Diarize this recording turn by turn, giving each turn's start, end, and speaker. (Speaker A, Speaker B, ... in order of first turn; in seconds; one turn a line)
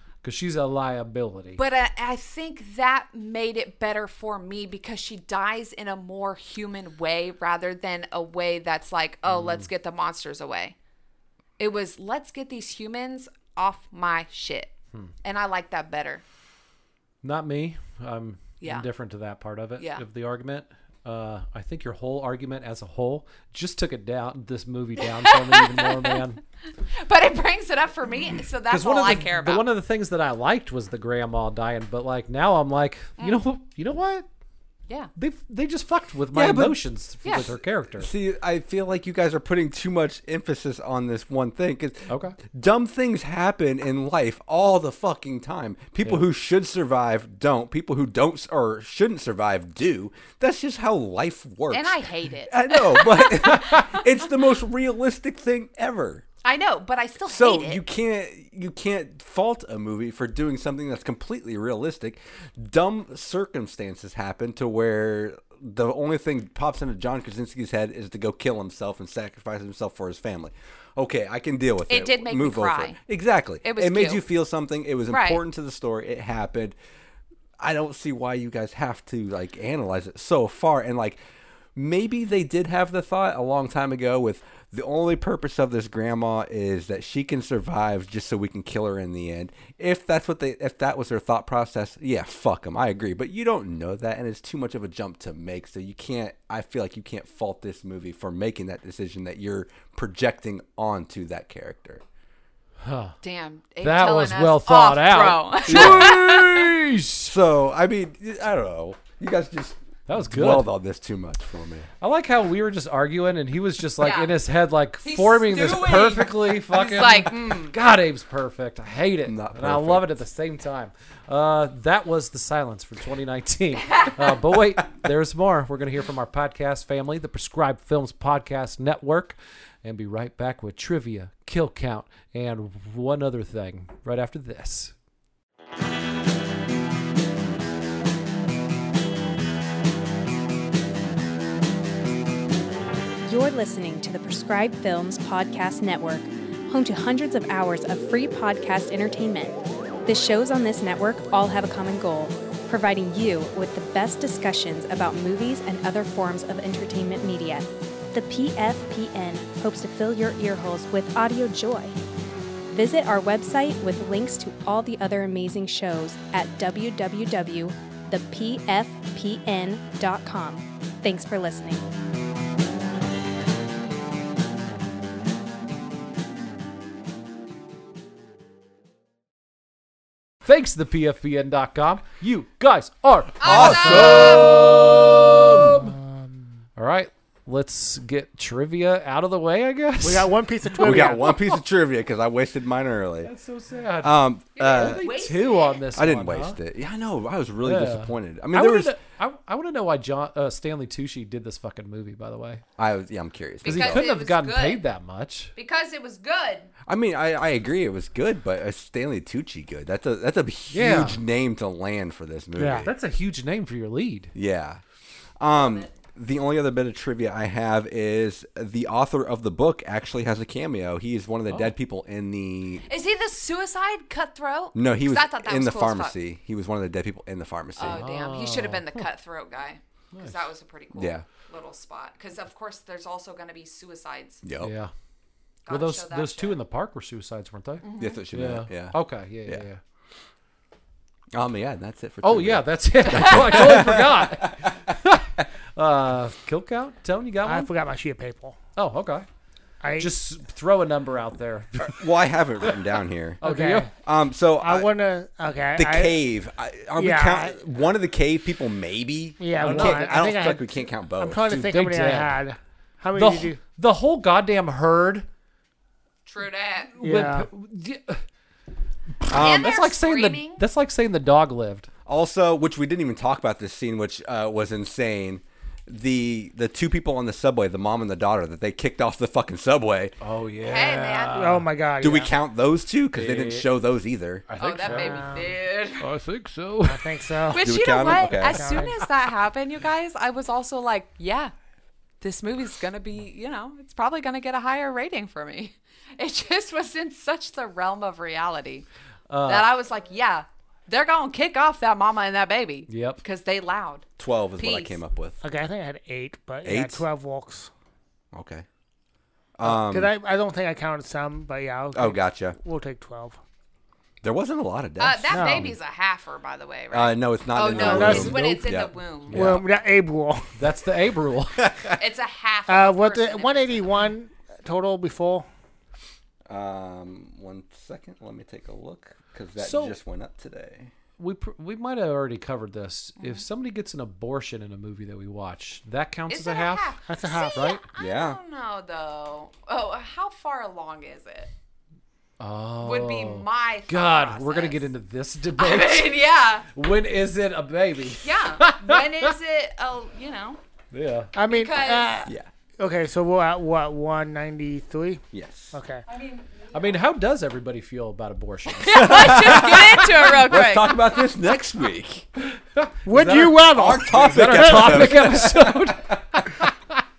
Speaker A: 0.2-1.6
Speaker B: 1.6-10.7
Speaker A: 9.3-9.6
Speaker B: 11.6-14.7
Speaker B: 15.2-16.2
Speaker A: 17.2-26.4
Speaker B: 18.6-18.9
Speaker B: 25.0-26.2
Speaker B: 27.0-29.7
Speaker A: 28.7-34.2
Speaker A: 35.1-38.1
Speaker C: 36.3-36.8
Speaker B: 37.2-37.5
Speaker C: 38.0-56.2
Speaker A: 42.1-42.4
Speaker B: 51.7-54.1
Speaker B: 56.4-57.8
Speaker C: 57.3-76.8
Speaker B: 71.9-73.0
Speaker B: 73.6-74.2
Speaker B: 75.1-75.4
Speaker C: 77.6-81.2
Speaker C: 81.7-102.0
Speaker A: 102.8-103.2
Speaker B: 103.2-106.7
Speaker A: 103.8-107.3
Speaker C: 105.7-106.6
Speaker C: 107.2-111.9
Speaker A: 110.1-110.7
Speaker A: 112.0-134.9
Speaker B: 114.0-114.3
Speaker B: 115.0-117.7
Speaker C: 119.2-120.2
Speaker D: 143.2-161.9
Speaker D: 162.7-171.8
Speaker A: 180.4-186.0
Speaker B: 183.4-184.7
Speaker C: 183.4-185.9
Speaker A: 186.8-190.3
Speaker E: 190.0-191.4
Speaker C: 190.8-193.3
Speaker A: 193.2-196.6
Speaker C: 194.0-195.1
Speaker B: 194.6-195.8
Speaker C: 195.9-198.9
Speaker A: 197.6-202.6
Speaker C: 202.8-204.0
Speaker B: 203.6-204.8
Speaker A: 203.6-205.5
Speaker B: 205.6-206.7
Speaker C: 206.8-212.9
Speaker A: 210.7-211.2
Speaker E: 212.6-212.9
Speaker A: 212.8-214.3
Speaker C: 214.3-214.8
Speaker C: 215.4-222.8
Speaker B: 215.5-215.9
Speaker B: 222.9-226.1
Speaker C: 224.7-228.1
Speaker B: 227.8-234.4
Speaker A: 227.8-229.1
Speaker A: 230.1-230.4
Speaker C: 230.9-231.2
Speaker C: 234.4-234.7
Speaker A: 234.6-234.9
Speaker B: 235.7-236.6
Speaker A: 235.7-239.8
Speaker B: 237.8-238.2
Speaker C: 238.0-239.6
Speaker C: 241.3-244.9
Speaker A: 242.2-247.7
Speaker E: 247.4-248.6
Speaker A: 248.8-249.2
Speaker E: 249.8-250.1
Speaker A: 250.0-252.1
Speaker C: 251.9-253.4
Speaker A: 253.4-253.9
Speaker E: 253.4-253.9
Speaker C: 254.0-254.9
Speaker E: 254.6-256.2
Speaker C: 255.7-261.5
Speaker E: 257.0-257.6
Speaker E: 259.4-263.6
Speaker A: 259.6-260.3
Speaker A: 261.4-262.4
Speaker A: 263.1-265.2
Speaker B: 266.2-266.9
Speaker A: 266.9-268.2
Speaker E: 267.0-267.5
Speaker A: 269.2-271.9
Speaker C: 269.3-269.7
Speaker B: 269.3-270.6
Speaker C: 272.1-280.1
Speaker A: 280.2-281.7
Speaker B: 280.6-281.5
Speaker E: 281.3-282.3
Speaker C: 282.0-284.4
Speaker A: 283.1-283.7
Speaker A: 284.5-285.3
Speaker B: 284.6-286.0
Speaker E: 284.8-285.5
Speaker A: 286.0-287.3
Speaker E: 286.8-289.0
Speaker B: 287.5-291.5
Speaker C: 287.6-288.7
Speaker B: 292.2-298.9
Speaker A: 299.3-299.7
Speaker B: 299.4-304.1
Speaker A: 302.9-303.2
Speaker C: 304.2-305.4
Speaker B: 304.6-305.0
Speaker E: 305.4-307.7
Speaker C: 306.6-307.0
Speaker C: 308.3-308.6
Speaker C: 309.6-310.1
Speaker E: 309.6-313.4
Speaker C: 311.9-312.6
Speaker C: 314.2-315.7
Speaker B: 315.0-319.4
Speaker E: 315.3-315.7
Speaker C: 316.9-319.6
Speaker E: 317.8-318.4
Speaker A: 317.9-318.6
Speaker A: 319.3-319.6
Speaker E: 319.3-320.5
Speaker A: 320.5-321.6
Speaker C: 321.6-322.0
Speaker B: 322.0-323.9
Speaker E: 322.7-325.5
Speaker C: 326.5-330.9
Speaker A: 329.6-330.0
Speaker A: 331.2-336.9
Speaker B: 333.2-333.4
Speaker B: 336.3-341.5
Speaker E: 337.1-337.8
Speaker A: 337.5-337.8
Speaker C: 338.0-338.4
Speaker A: 342.4-346.2
Speaker B: 342.8-344.9
Speaker B: 345.6-346.7
Speaker A: 346.7-349.3
Speaker B: 348.1-350.6
Speaker A: 350.9-351.3
Speaker E: 351.3-356.0
Speaker B: 351.5-352.1
Speaker C: 355.3-355.7
Speaker B: 356.1-356.8
Speaker A: 356.7-360.0
Speaker B: 358.8-361.2
Speaker C: 358.9-362.3
Speaker A: 362.4-367.0
Speaker E: 363.1-365.0
Speaker C: 363.7-366.4